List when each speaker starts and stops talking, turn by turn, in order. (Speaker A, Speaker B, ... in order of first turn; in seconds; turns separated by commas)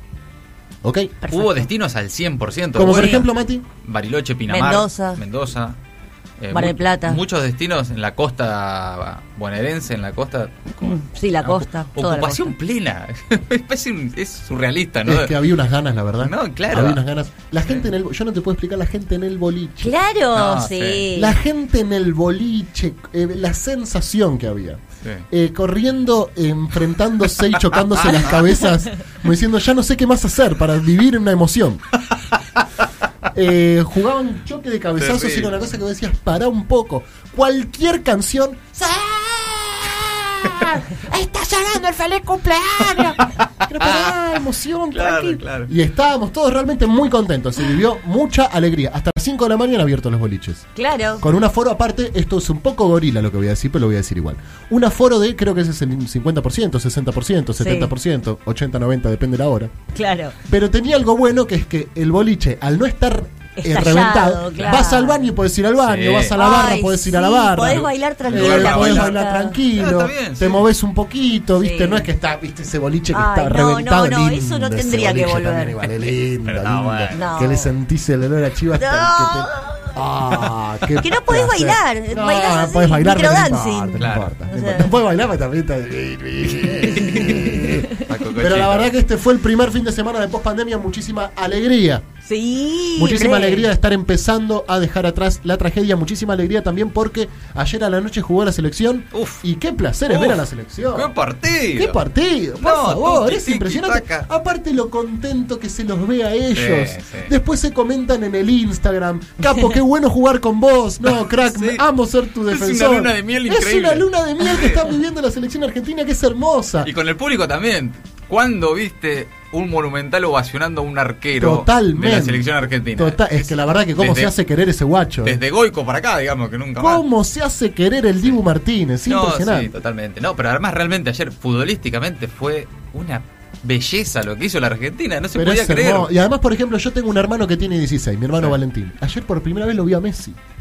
Speaker A: 0.8-1.2, Speaker B: 1.2-1.7, Speaker C: 1.3-3.3, Speaker A: 2.8-3.6, Speaker B: 2.9-3.3, Speaker C: 3.8-5.8, Speaker B: 4.5-5.2, Speaker C: 6.4-15.4, Speaker B: 6.5-7.2, Speaker B: 10.8-12.6, Speaker A: 15.1-19.9, Speaker C: 16.2-17.0, Speaker B: 19.8-21.4, Speaker C: 20.3-21.1, Speaker A: 21.1-31.8, Speaker C: 28.0-28.4, Speaker A: 33.3-50.7, Speaker C: 35.0-35.5, Speaker C: 43.0-44.3, Speaker C: 44.9-45.7, Speaker B: 50.8-51.2, Speaker A: 51.2-59.7, Speaker B: 57.6-57.9, Speaker B: 59.9-60.4, Speaker A: 60.5-92.1, Speaker B: 63.6-65.3, Speaker C: 65.8-66.4, Speaker B: 66.4-69.6, Speaker C: 68.3-69.2, Speaker C: 69.7-70.7, Speaker B: 71.6-72.1, Speaker B: 73.1-75.8, Speaker C: 76.5-77.3, Speaker B: 77.1-77.7, Speaker B: 78.8-79.9, Speaker B: 81.0-84.9, Speaker C: 84.0-84.3, Speaker C: 86.8-88.9, Speaker B: 92.2-93.7, Speaker A: 93.0-101.1, Speaker C: 99.1-99.4, Speaker C: 100.1-102.0, Speaker A: 101.8-116.9, Speaker C: 102.6-104.3, Speaker C: 106.5-107.3, Speaker C: 111.2-111.8, Speaker C: 112.5-114.8, Speaker C: 116.8-124.3, Speaker A: 121.4-122.5, Speaker A: 123.0-125.4, Speaker C: 125.2-127.0, Speaker A: 126.8-129.7, Speaker C: 129.1-136.1, Speaker A: 135.3-140.4